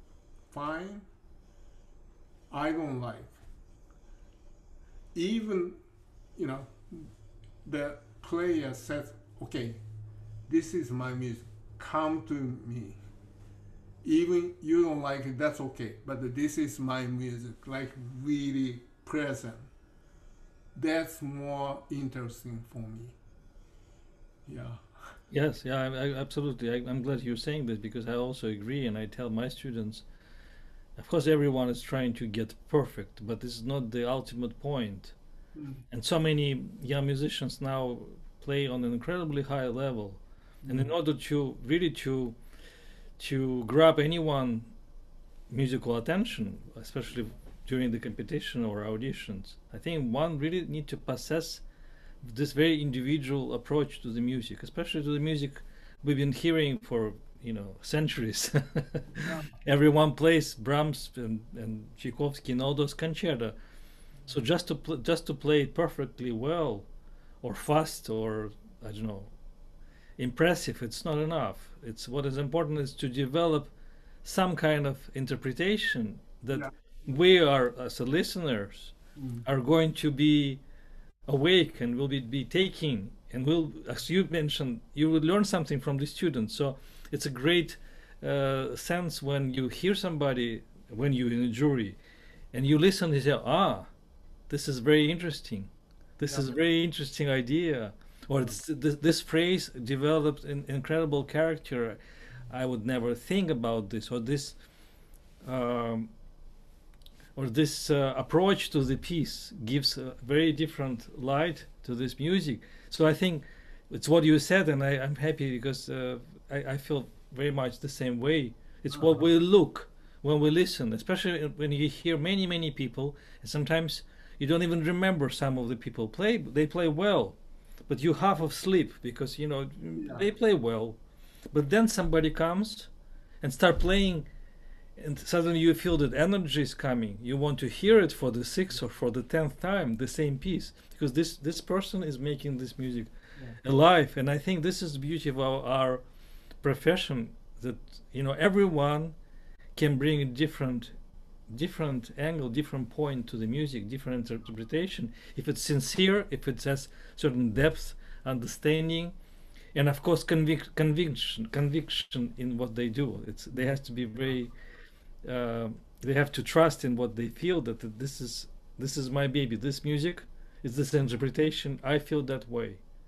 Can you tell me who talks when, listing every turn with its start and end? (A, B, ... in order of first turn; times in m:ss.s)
0:00.5-0:01.1 A
0:02.5-0:03.4 A
0:05.2-0:05.8 A
0:06.4-0:07.1 A
0:07.6-0:09.8 A
0:10.5-0:13.0 A
0:14.0-0:19.7 A
0:20.8-0:23.2 A
0:24.5-0:24.8 A
0:25.3-0:30.0 B
0:31.0-0:35.2 B
0:35.6-0:35.8 A
0:35.9-0:42.4 B
0:40.6-0:40.9 A
0:43.2-0:44.7 B
0:45.5-0:51.6 B
0:52.2-1:03.5 B
0:59.2-0:59.5 A
1:04.3-1:06.9 B
1:07.4-1:09.3 B
1:10.2-1:13.7 B
1:14.2-1:18.9 B
1:19.2-1:19.5 A
1:19.5-1:20.6 B
1:21.3-1:32.0 B
1:32.5-1:33.9 B
1:34.5-1:44.6 B
1:36.3-1:36.6 A
1:45.4-1:46.1 B
1:47.4-2:11.0 B
2:10.0-2:10.3 A
2:11.5-2:12.9 B
2:13.4-2:14.3 B
2:15.0-2:26.0 B
2:26.6-2:29.2 B
2:29.8-2:31.0 B
2:31.5-2:39.2 B
2:39.8-2:44.5 B
2:45.2-2:52.8 B